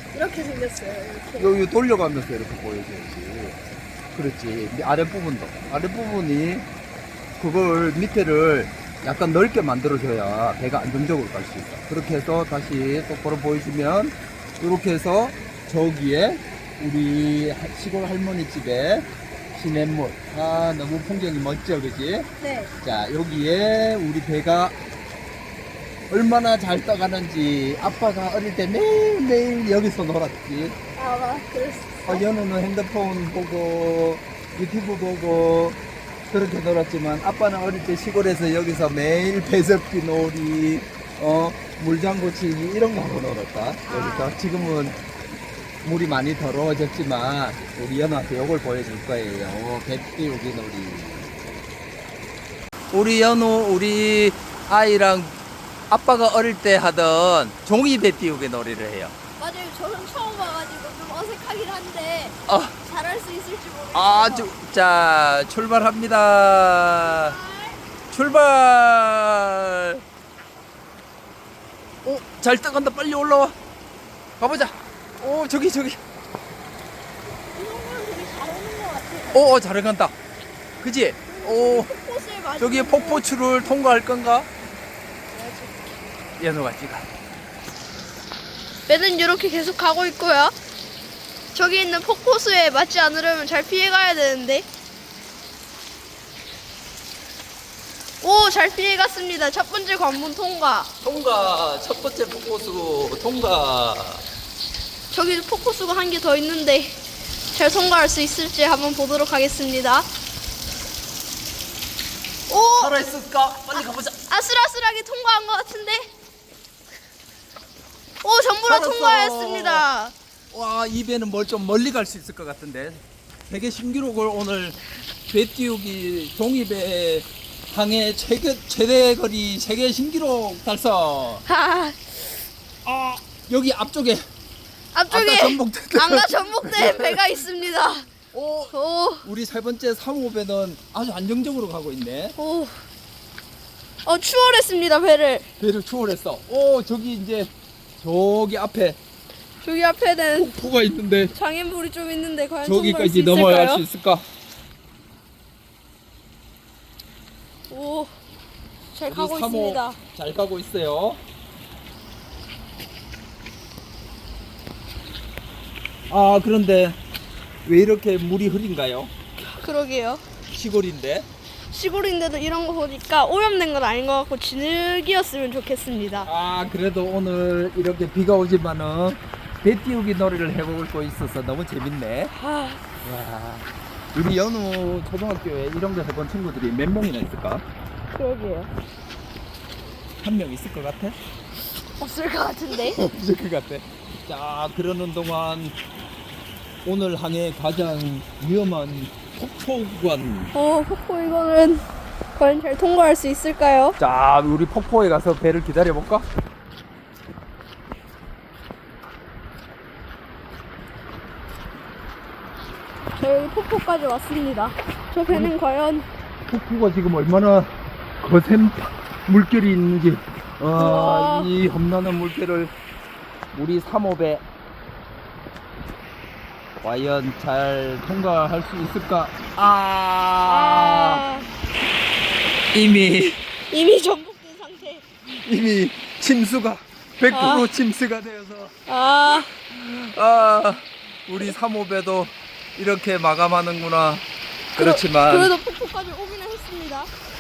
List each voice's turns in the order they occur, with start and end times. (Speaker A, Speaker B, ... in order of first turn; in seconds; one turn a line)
Speaker A: 0.1-1.6
Speaker B: 1.4-3.6
Speaker B: 4.1-6.7
Speaker B: 7.4-22.3
Speaker A: 22.4-22.7
Speaker B: 22.8-24.7
Speaker B: 26.1-30.8
Speaker A: 31.0-32.3
Speaker B: 32.1-35.8
Speaker B: 36.3-45.0
Speaker A: 43.9-44.9
Speaker B: 45.8-51.5
Speaker B: 52.9-55.4
Speaker B: 55.9-59.1
Speaker A: 59.4-64.5
Speaker B: 62.5-62.8
Speaker B: 63.9-67.4
Speaker A: 67.0-67.8
Speaker B: 68.1-70.0
Speaker B: 72.0-73.5
Speaker B: 74.4-76.0
Speaker A: 77.5-79.5
Speaker B: 79.3-80.2
Speaker B: 80.8-81.9
Speaker A: 81.3-83.2
Speaker B: 82.6-84.5
Speaker A: 85.3-86.0
Speaker B: 86.4-87.1
Speaker A: 88.9-90.5
Speaker A: 91.5-94.7
Speaker A: 98.2-100.9
Speaker B: 101.0-104.2
Speaker A: 105.1-107.0
Speaker A: 107.5-110.1
Speaker A: 112.5-113.0
Speaker B: 112.8-114.2
Speaker A: 114.3-116.1
Speaker A: 118.2-120.2
Speaker B: 118.7-119.9
Speaker B: 120.5-124.8
Speaker B: 125.3-131.4
Speaker A: 131.5-132.2
Speaker B: 132.8-134.2
Speaker A: 134.9-138.1
Speaker B: 135.1-137.2
Speaker B: 138.3-142.4
Speaker A: 138.7-139.2
Speaker A: 142.4-142.8
Speaker A: 144.1-145.5
Speaker B: 145.6-149.0
Speaker A: 149.6-150.5
Speaker B: 150.3-151.3
Speaker A: 151.3-153.8
Speaker B: 152.6-154.2
Speaker A: 157.7-158.1
Speaker A: 158.9-160.0
Speaker B: 159.1-161.2
Speaker B: 166.1-167.0
Speaker B: 167.7-169.1
Speaker A: 169.4-170.2
Speaker B: 170.5-171.3
Speaker A: 171.7-176.3
Speaker B: 176.2-182.3
Speaker A: 182.4-182.8
Speaker B: 183.0-187.6
Speaker A: 188.2-188.7
Speaker B: 190.2-191.2
Speaker A: 192.0-193.0
Speaker B: 192.7-195.8
Speaker B: 196.8-200.5
Speaker A: 200.5-201.8
Speaker A: 202.4-204.0
Speaker B: 204.0-206.2
Speaker A: 213.2-216.1
Speaker B: 216.5-222.7
Speaker A: 220.8-221.5
Speaker B: 223.5-224.4
Speaker B: 226.8-231.2
Speaker A: 230.5-231.5
Speaker B: 232.7-233.4
Speaker A: 233.7-235.1
Speaker B: 235.3-238.7
Speaker A: 237.3-237.7
Speaker A: 238.9-239.5
Speaker B: 239.6-244.2
Speaker B: 244.8-245.5
Speaker A: 244.8-247.1